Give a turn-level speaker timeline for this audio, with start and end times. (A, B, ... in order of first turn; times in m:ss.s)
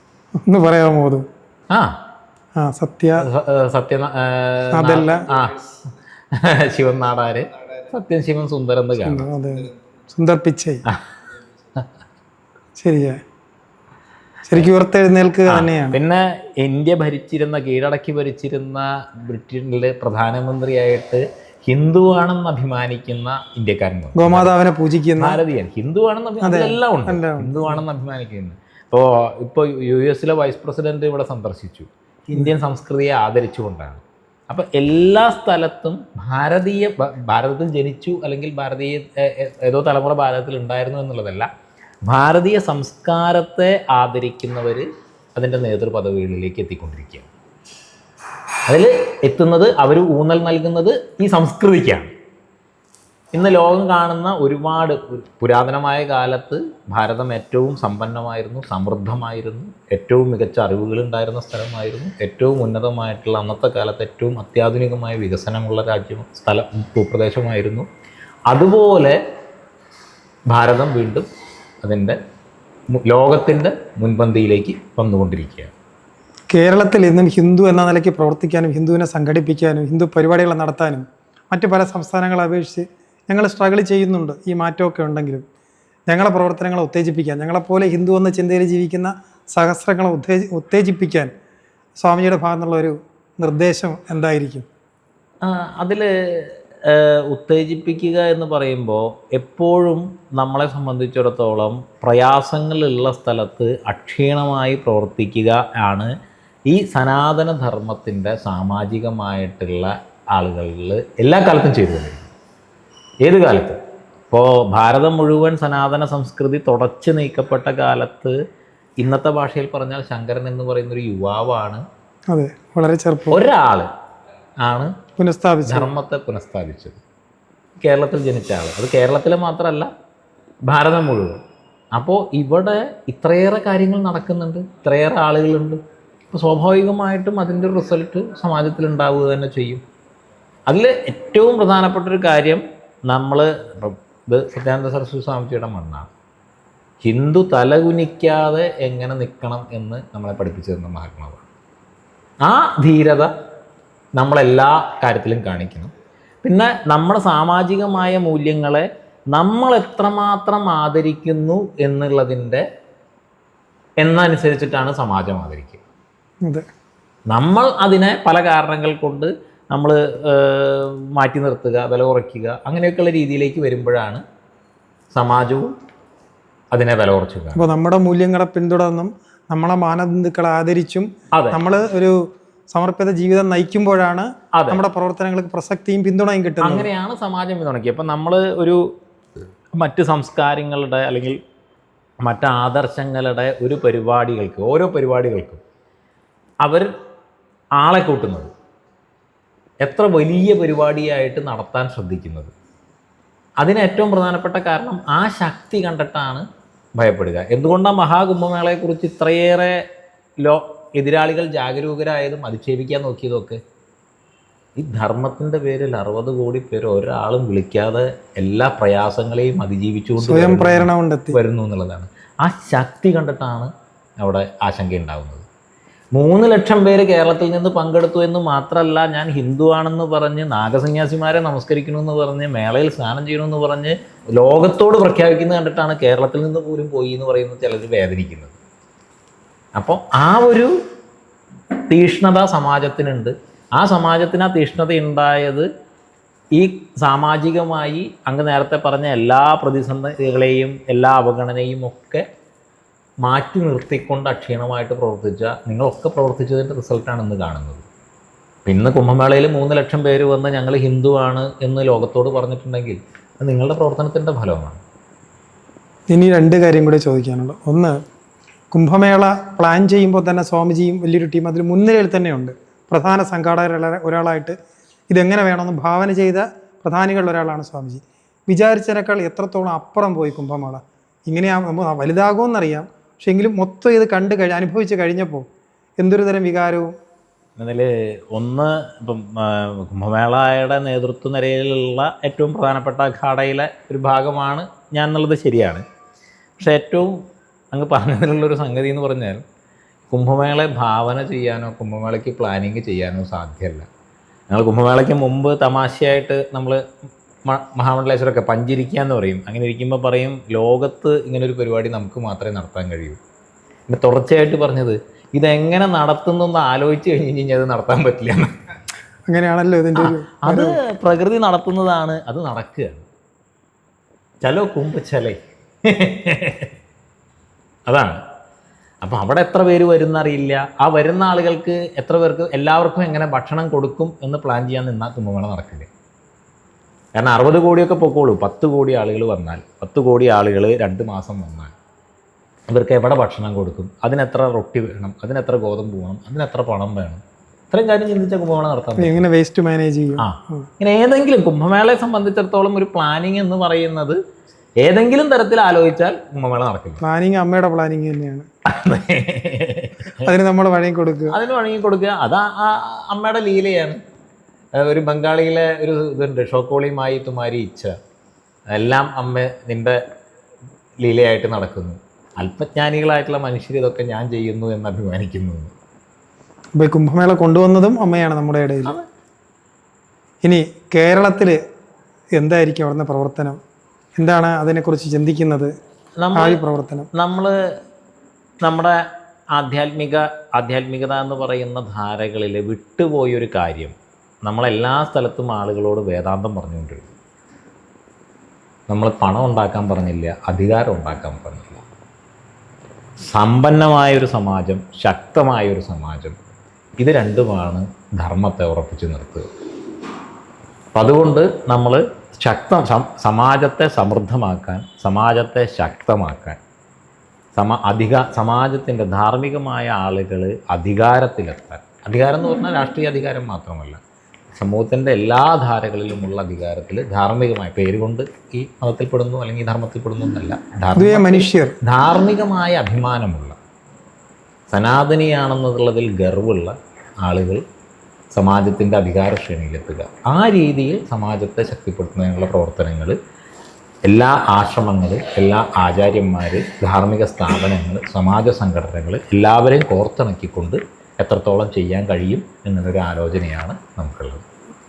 0:00.5-0:01.3 A
0:02.6-0:03.3 A
0:03.2-0:05.6 B
0:04.7-0:05.2 A
0:06.3-0:09.3 B
0:09.0-0:10.8 A
0:12.8-0:13.2 A
0:14.5-0:16.0 A
0:15.5-0:24.5 B
0:24.2-0:25.4 A
0:25.2-0:41.5 B
0:26.4-0:27.8 A
0:42.1-0:47.3 B
0:48.7-0:52.1 B
0:53.3-1:07.9 B
1:08.5-1:09.2 B
1:10.5-1:11.3 B
1:11.8-1:12.2 B
1:12.9-1:15.7 B
1:16.5-1:25.4 A
1:26.1-1:31.3 A
1:32.0-1:34.7 A
1:35.4-1:46.1 B
1:46.7-1:52.3 B
1:53.2-1:53.8 B
1:54.3-1:58.4 B
1:59.0-2:01.8 B
2:02.3-2:03.4 A
2:03.3-2:03.9 B
2:04.6-2:04.9 B
2:05.2-2:05.9 A
2:05.7-2:07.0 B
2:07.8-2:09.9 B
2:10.7-2:11.4 B
2:12.0-2:15.8 B
2:16.3-2:19.8 B
2:20.7-2:26.1 B
2:27.0-2:31.5 B
2:32.4-2:33.3 B
2:34.2-2:35.9 B
2:36.4-2:42.6 B
2:44.0-2:45.8 B
2:47.3-2:54.2 B
2:55.1-2:55.7 B
2:56.7-2:57.6 B
2:57.6-3:06.9 A
3:01.3-3:01.6 B
3:04.6-3:04.8 B
3:06.6-3:08.9 B
3:09.8-3:11.4 B
3:12.2-3:15.6 B
3:16.6-3:16.9 B
3:17.8-3:18.5 B
3:19.8-3:22.5 B
3:23.6-3:26.4 B
3:27.0-3:29.8 B
3:30.4-3:33.6 B
3:34.8-3:45.5 B
3:40.2-3:41.4 A
3:46.1-3:58.6 B
3:59.8-4:00.7 B
4:01.9-4:05.7 B
4:06.6-4:12.2 B
4:13.2-4:17.9 B
4:18.7-4:24.8 B
4:26.1-4:28.0 A
4:28.7-4:34.6 A
4:35.1-4:45.4 A
4:46.0-4:46.9 A
4:47.6-4:55.8 B
4:56.6-4:57.2 B
4:57.7-4:59.4 B
5:00.1-5:03.9 B
5:04.5-5:06.8 B
5:07.5-5:13.2 B
5:13.9-5:18.5 B
5:19.3-5:20.8 A
5:20.0-5:23.0 B
5:24.4-5:26.7 B
5:27.9-5:28.2 B
5:29.0-5:35.9 B
5:37.2-5:41.7 B
5:42.7-5:47.2 B
5:47.7-5:49.3 B
5:49.0-5:50.7 A
5:50.2-5:54.2 B
5:54.8-5:57.0 B
5:57.0-5:58.5 A
5:58.7-6:00.3 B
6:00.2-6:01.4 A
6:01.3-6:04.0 B
6:04.8-6:07.9 B
6:08.7-6:10.0 B
6:11.0-6:15.7 B
6:16.8-6:18.9 A
6:20.4-6:21.6 A
6:22.4-6:23.6 A
6:24.2-6:25.7 A
6:26.2-6:26.6 B
6:26.4-6:27.1 A
6:27.1-6:27.6 B
6:28.6-6:29.0 B
6:29.6-6:37.1 B
6:38.9-6:41.8 B
6:43.2-6:46.4 B
6:47.0-6:49.5 B
6:51.0-6:56.6 B
6:57.6-7:04.0 B
7:04.6-7:13.6 B
7:11.0-7:11.7 A
7:14.7-7:17.6 B
7:18.3-7:23.2 B
7:24.1-7:34.4 B